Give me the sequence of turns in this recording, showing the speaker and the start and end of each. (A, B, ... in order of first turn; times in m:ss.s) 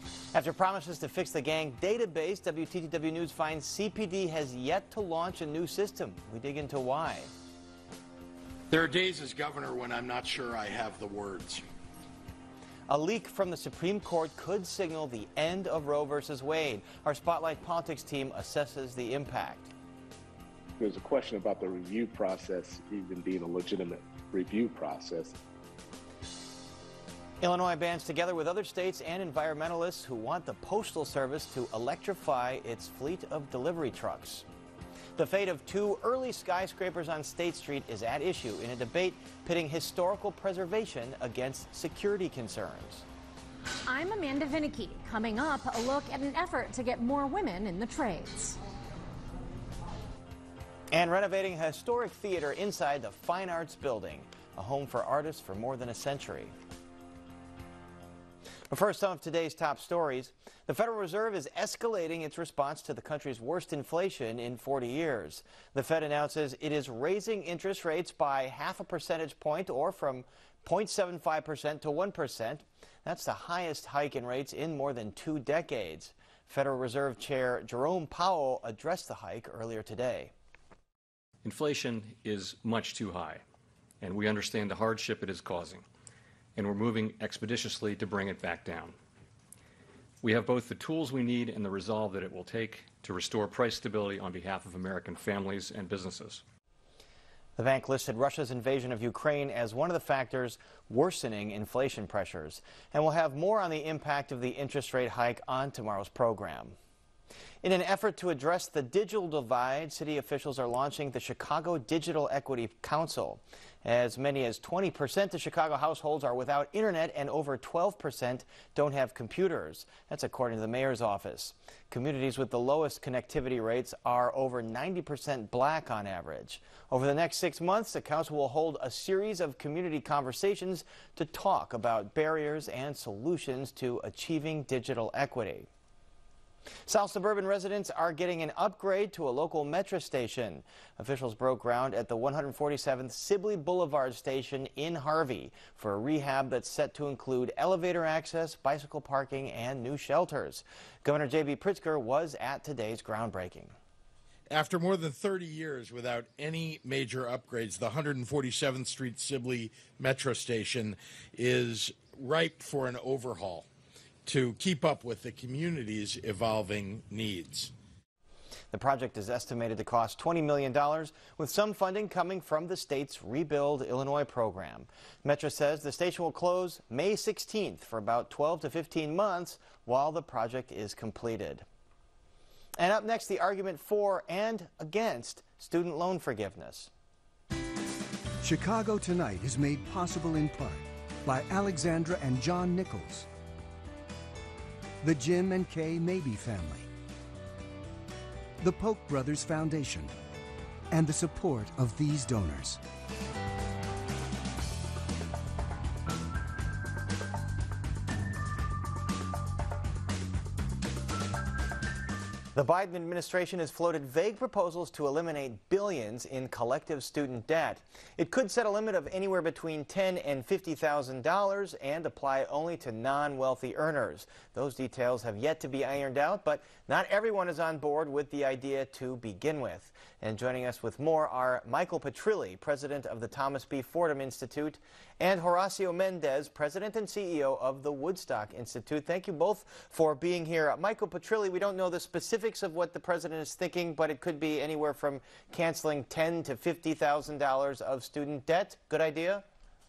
0:00.3-0:07.3 A
0:08.7-0:11.6 B
0:12.9-0:19.7 A
0:20.8-0:25.4 C
0:27.4-0:34.4 A
0:35.2-0:43.0 A
0:43.9-0:48.6 D
0:50.9-0:56.5 A
0:58.7-1:20.3 A
1:21.4-1:23.4 E
1:24.0-1:25.9 E
1:26.5-1:29.0 E
1:30.2-1:36.4 E
1:37.6-1:46.8 A
1:47.6-2:15.7 A
2:16.9-2:33.7 A
2:34.5-2:43.7 B
2:44.2-2:47.7 B
2:48.7-3:01.6 A
3:02.8-3:06.9 A
3:08.4-3:13.3 F
3:15.0-3:16.9 F
3:18.6-3:20.1 F
3:20.9-3:22.8 F
3:32.5-4:09.4 A